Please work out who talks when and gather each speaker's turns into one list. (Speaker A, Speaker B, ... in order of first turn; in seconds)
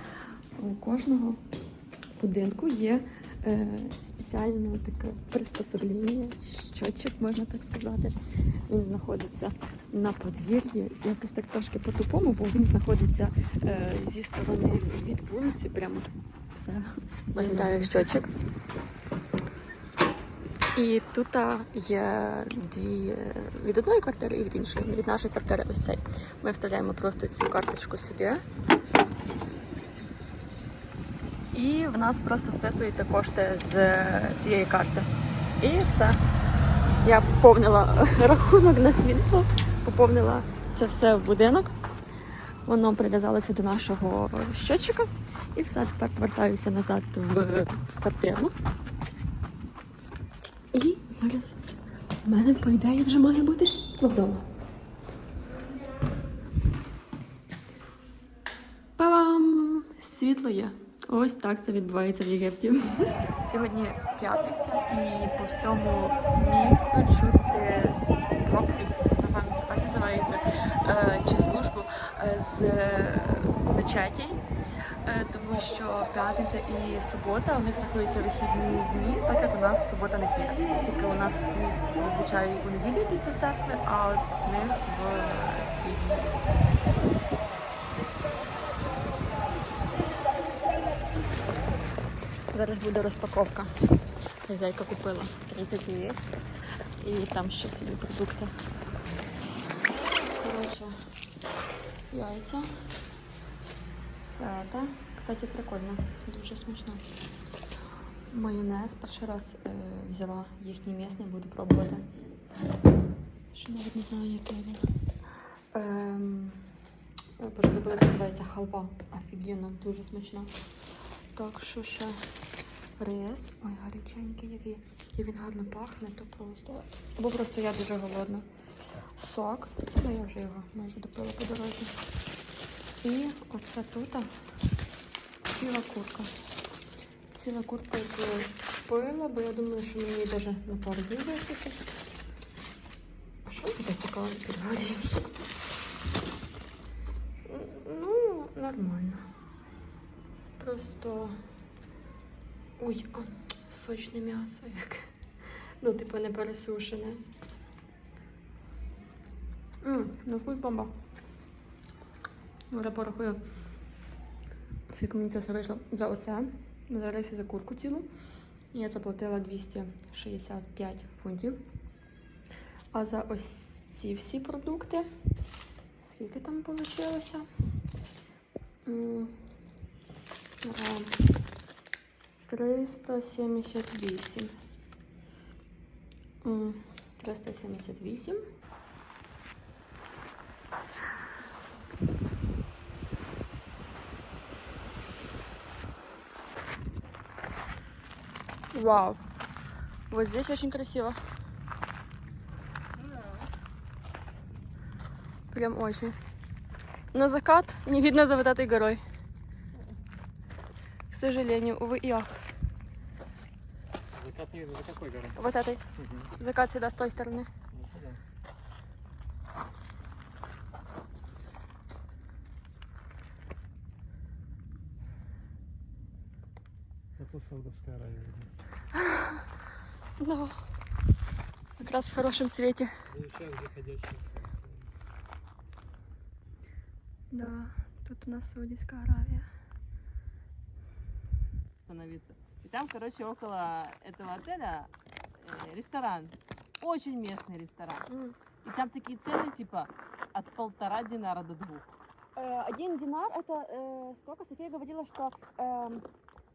Speaker A: 0.6-1.4, 2.2-8.2, 8.7-18.3, 20.7-28.4, 31.5-35.1, 35.6-36.2, 37.0-41.7, 42.7-48.5, 50.7-51.6, 52.2-54.5, 59.0-74.4, 75.0-86.5, 92.5-96.3, 97.0-98.5, 100.3-101.1, 102.1-102.7, 104.2-107.0, 108.3-112.1, 113.5-114.8, 115.7-116.6, 117.4-120.5, 121.3-122.2, 123.0-128.5, 129.2-131.9, 133.0-134.3, 135.5-136.3, 137.3-141.8, 143.5-145.3, 147.5-149.2, 150.6-151.4, 152.8-155.1, 155.8-157.2, 159.8-160.9, 162.7-163.4, 164.9-168.1, 168.7-171.6, 172.9-175.1, 176.0-177.5, 178.8-179.3, 180.6-181.2, 182.5-184.5, 186.4-188.4, 198.7-199.2, 200.1-201.2, 205.5-206.2, 207.1-209.0, 211.1-212.4, 215.3-215.8, 216.4-217.5, 230.2-230.7, 231.8-232.9, 237.3-239.5, 248.1-248.3, 252.3-256.1
Speaker B: 17.4-17.8, 202.9-203.5, 241.8-248.1, 248.6-251.9
Speaker C: 214.1-215.4, 215.9-216.3, 217.7-218.2, 227.2-228.5, 233.1-234.9